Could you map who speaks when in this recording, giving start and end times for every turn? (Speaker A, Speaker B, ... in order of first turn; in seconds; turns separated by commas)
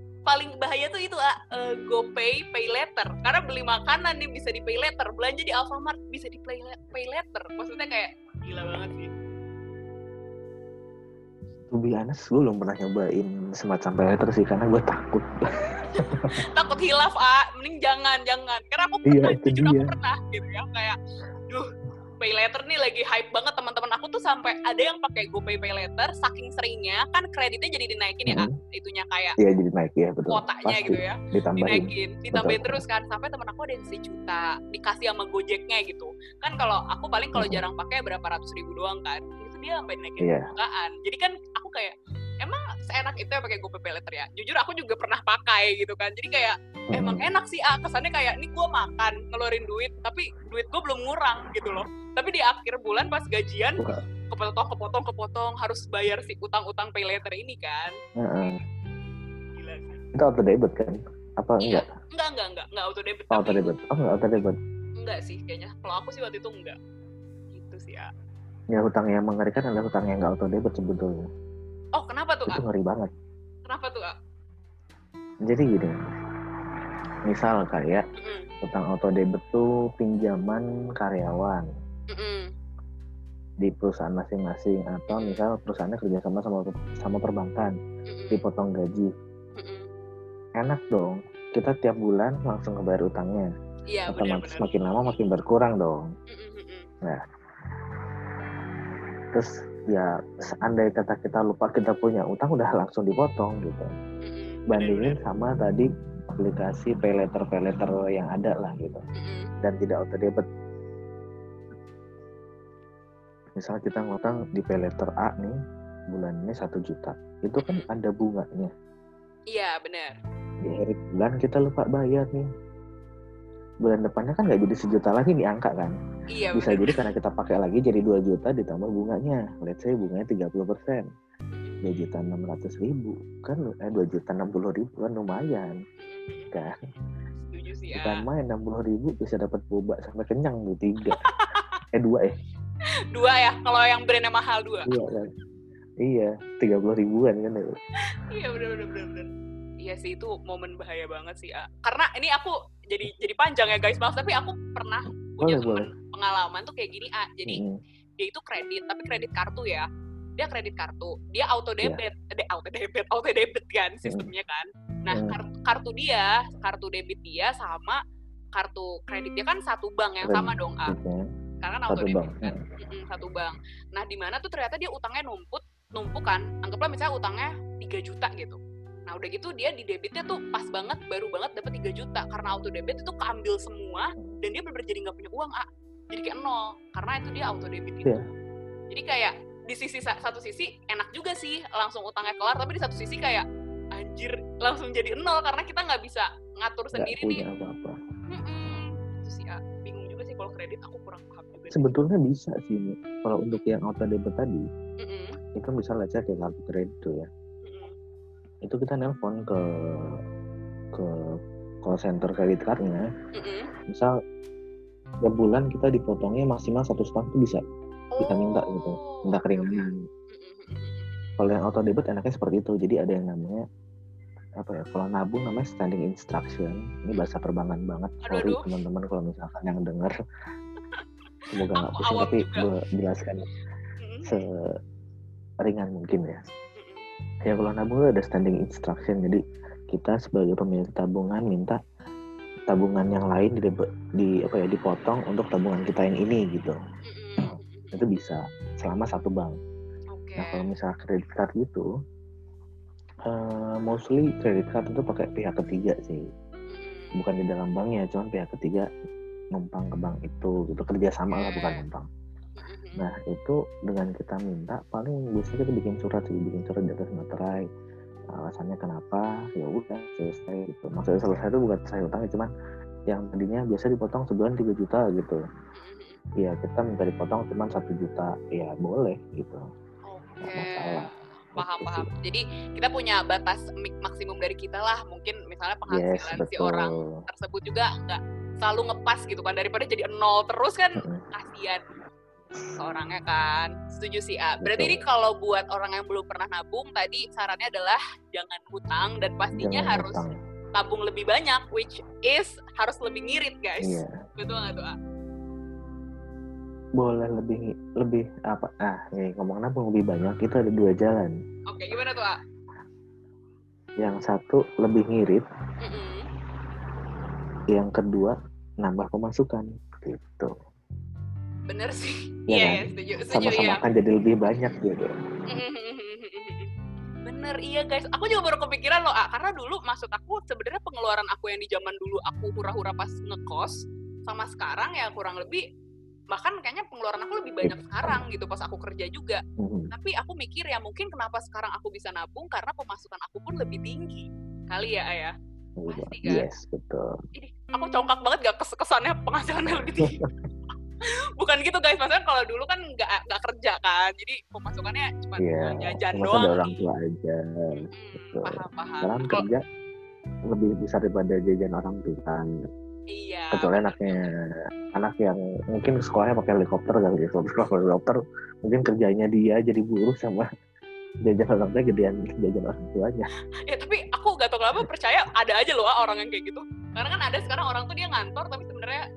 Speaker A: 0.2-9.1, Speaker B: 11.7-15.3, Speaker A: 15.9-20.9, Speaker B: 16.1-16.4, Speaker B: 19.1-19.9, Speaker A: 22.2-29.3, Speaker B: 29.4-32.8, Speaker A: 30.3-58.6, Speaker B: 37.4-37.6, Speaker B: 40.2-40.5, Speaker B: 46.9-47.2, Speaker B: 58.2-58.6, Speaker A: 59.5-60.0, Speaker B: 60.1-61.8, Speaker A: 61.6-63.7, Speaker B: 63.3-64.5, Speaker A: 65.0-66.8, Speaker A: 67.5-68.1, Speaker B: 68.7-71.2, Speaker A: 72.0-72.6, Speaker B: 72.5-73.1, Speaker A: 73.7-74.1, Speaker B: 75.5-75.9, Speaker B: 77.2-78.0, Speaker A: 78.2-78.5, Speaker B: 78.6-81.6, Speaker A: 82.1-82.5, Speaker B: 83.6-87.7, Speaker A: 85.1-85.4, Speaker A: 88.1-88.5, Speaker B: 88.3-89.1, Speaker A: 89.6-89.9, Speaker B: 90.6-93.5, Speaker A: 93.9-95.2, Speaker B: 94.1-96.0, Speaker A: 96.3-96.9, Speaker B: 99.3-103.9, Speaker A: 104.2-105.2, Speaker B: 104.7-105.8, Speaker B: 106.4-109.0, Speaker A: 109.1-109.5, Speaker B: 109.6-110.4, Speaker B: 113.6-115.6, Speaker B: 116.1-118.7, Speaker A: 117.6-117.9, Speaker A: 119.5-120.1, Speaker B: 120.6-122.4, Speaker B: 123.8-125.9, Speaker A: 126.3-127.0, Speaker B: 126.5-131.0, Speaker A: 131.5-132.1, Speaker B: 131.8-135.7, Speaker A: 136.0-138.2, Speaker B: 136.5-136.8, Speaker B: 137.9-141.2, Speaker A: 141.1-141.8, Speaker B: 141.9-142.3, Speaker A: 143.1-144.9, Speaker B: 144.8-145.3, Speaker B: 146.0-147.7, Speaker A: 148.3-149.3, Speaker A: 149.8-157.6, Speaker B: 155.4-155.9, Speaker B: 157.5-157.7, Speaker A: 158.2-159.8, Speaker A: 160.4-168.0, Speaker B: 165.1-165.4, Speaker A: 168.5-170.9, Speaker B: 170.2-171.2, Speaker A: 171.6-188.2, Speaker B: 171.9-172.6, Speaker A: 188.9-193.4, Speaker A: 193.9-197.4, Speaker B: 196.9-197.9, Speaker A: 198.3-201.9, Speaker B: 201.7-204.6, Speaker A: 205.0-205.4, Speaker B: 205.6-207.3, Speaker A: 207.6-207.9, Speaker B: 208.6-210.2, Speaker B: 210.9-213.0, Speaker A: 213.3-213.7, Speaker B: 213.9-214.1, Speaker B: 215.2-217.6, Speaker A: 218.1-221.4, Speaker B: 218.2-220.0, Speaker B: 221.4-223.6, Speaker B: 224.6-230.2, Speaker A: 228.3-228.7, Speaker B: 231.5-233.5, Speaker A: 231.7-232.7, Speaker A: 234.0-234.3, Speaker B: 234.2-234.6, Speaker B: 235.6-236.4, Speaker A: 236.8-237.0, Speaker B: 237.4-239.4, Speaker B: 239.9-241.8, Speaker B: 242.7-246.8, Speaker A: 247.0-248.0, Speaker B: 247.9-249.6, Speaker A: 250.1-250.7, Speaker B: 250.4-251.8, Speaker B: 253.3-256.2, Speaker A: 256.7-257.1, Speaker B: 257.2-258.9, Speaker B: 259.5-262.1, Speaker A: 261.3-261.8, Speaker A: 262.6-263.0, Speaker B: 263.0-267.6, Speaker B: 268.3-272.5, Speaker B: 273.1-275.4, Speaker A: 275.7-276.2, Speaker B: 276.4-279.6, Speaker A: 280.1-291.8, Speaker B: 280.4-282.1, Speaker B: 285.9-287.2, Speaker A: 292.8-300.2, Speaker B: 294.6-295.0, Speaker B: 299.6-300.4, Speaker A: 300.8-304.9, Speaker B: 303.8-304.1, Speaker B: 307.0-311.3, Speaker A: 311.7-312.4, Speaker B: 314.0-315.4, Speaker A: 315.8-316.3, Speaker B: 317.7-320.5, Speaker A: 321.7-323.8, Speaker B: 322.5-325.1, Speaker A: 325.5-326.7, Speaker A: 327.2-333.7, Speaker A: 334.3-335.6, Speaker A: 336.3-345.3, Speaker B: 337.6-338.2, Speaker B: 339.6-339.9, Speaker B: 345.8-347.1, Speaker A: 345.9-346.5, Speaker A: 347.3-350.2, Speaker B: 349.7-350.2, Speaker A: 351.4-356.8, Speaker B: 355.4-359.6, Speaker A: 357.7-359.4, Speaker B: 360.5-362.5, Speaker A: 363.1-364.3, Speaker B: 363.5-364.4, Speaker B: 364.9-370.4, Speaker B: 371.2-373.3, Speaker A: 373.7-379.0